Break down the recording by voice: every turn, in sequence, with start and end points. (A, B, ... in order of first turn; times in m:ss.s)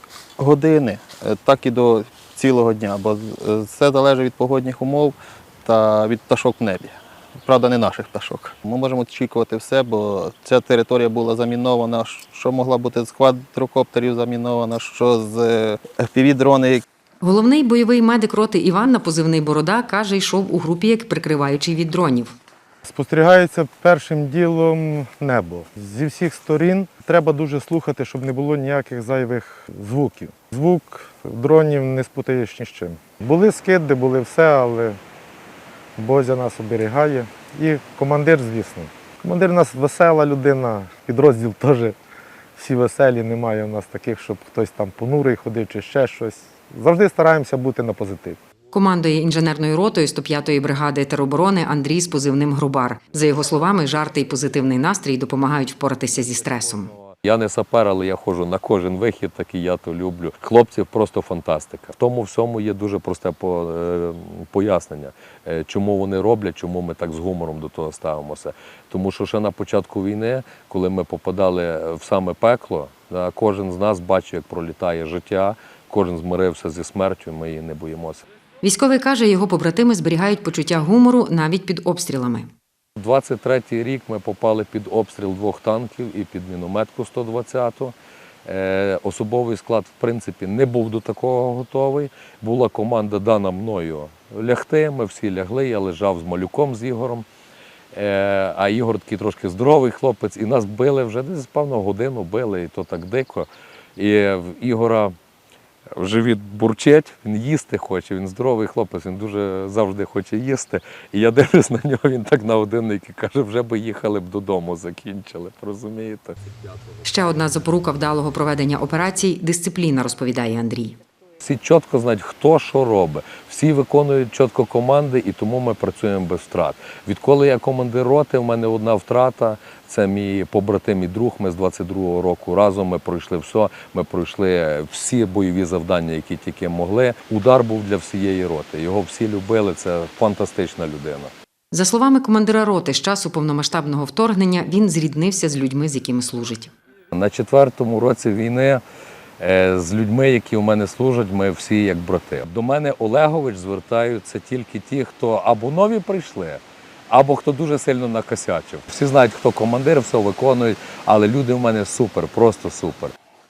0:00.4-0:16.8 A
0:17.2-0:22.3 B
0:22.8-0:35.0 C
0:36.0-0:42.0 C
0:42.6-0:48.4 C
0:48.7-0:56.9 B
0:57.1-1:18.2 D
1:18.6-1:22.5 B
1:23.0-1:27.9 D
1:28.4-1:37.2 D
1:37.9-1:45.1 D
1:45.9-1:56.4 D
1:57.0-2:01.0 B
2:01.4-2:21.3 D
2:21.7-2:26.7 B
2:27.1-2:28.8 D
2:29.4-2:43.1 D